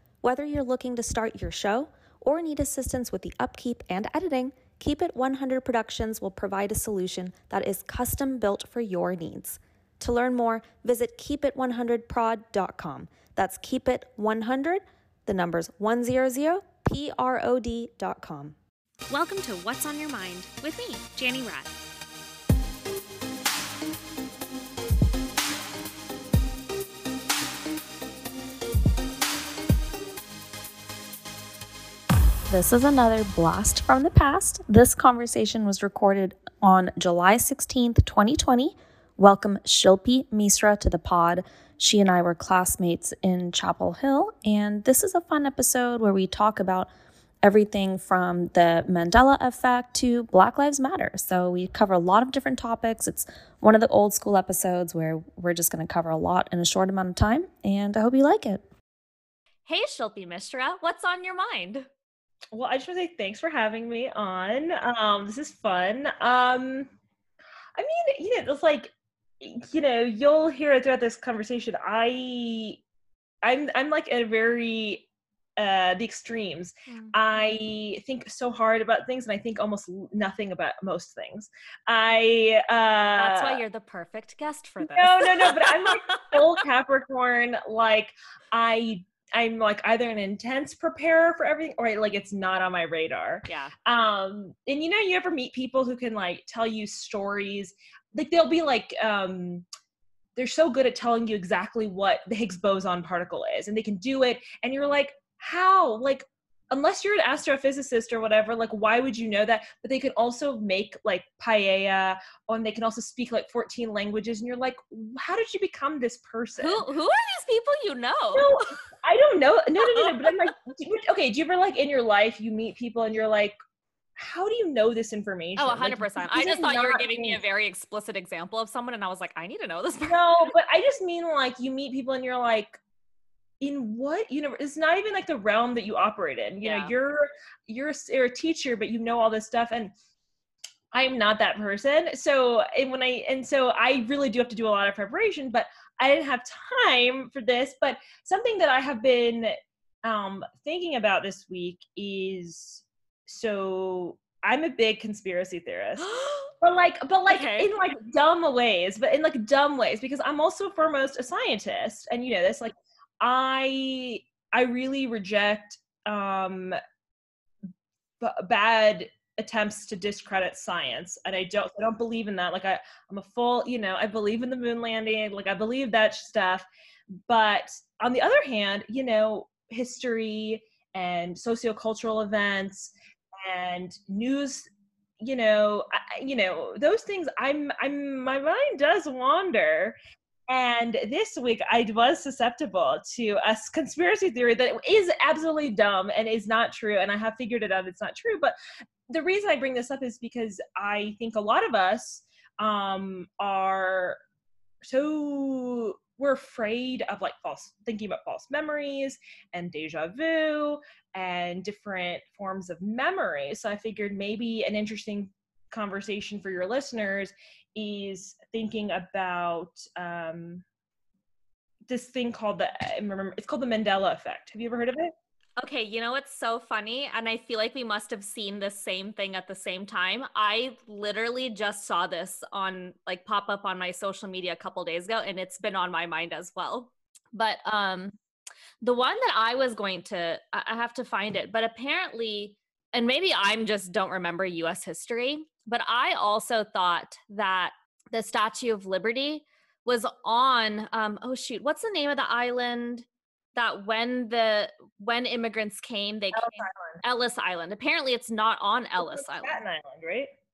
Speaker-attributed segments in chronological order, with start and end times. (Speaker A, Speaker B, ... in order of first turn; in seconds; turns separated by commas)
Speaker A: 0.2-18.6, Speaker A: 19.1-21.7, Speaker A: 32.5-46.9, Speaker A: 47.4-58.6, Speaker B: 59.7-61.9, Speaker C: 62.5-66.9, Speaker C: 67.8-72.8, Speaker C: 73.4-83.6, Speaker B: 76.9-77.1, Speaker B: 83.2-86.4, Speaker C: 84.8-99.6, Speaker B: 93.5-93.7, Speaker C: 100.3-116.8, Speaker B: 116.6-118.6, Speaker C: 118.3-123.6, Speaker B: 119.8-120.3, Speaker C: 124.2-127.4, Speaker B: 125.6-130.5, Speaker C: 130.1-132.8, Speaker C: 133.6-139.9, Speaker B: 136.6-136.9, Speaker C: 140.9-149.5, Speaker C: 150.0-156.1, Speaker B: 156.0-156.5, Speaker C: 156.6-166.8, Speaker B: 157.3-157.7, Speaker C: 168.2-176.7, Speaker C: 177.3-184.7, Speaker C: 185.2-189.9, Speaker C: 190.5-198.5, Speaker C: 199.1-204.2, Speaker C: 204.8-220.6, Speaker C: 221.9-225.1, Speaker B: 225.6-238.1, Speaker B: 238.8-259.6, Speaker C: 256.3-257.0, Speaker C: 259.0-260.3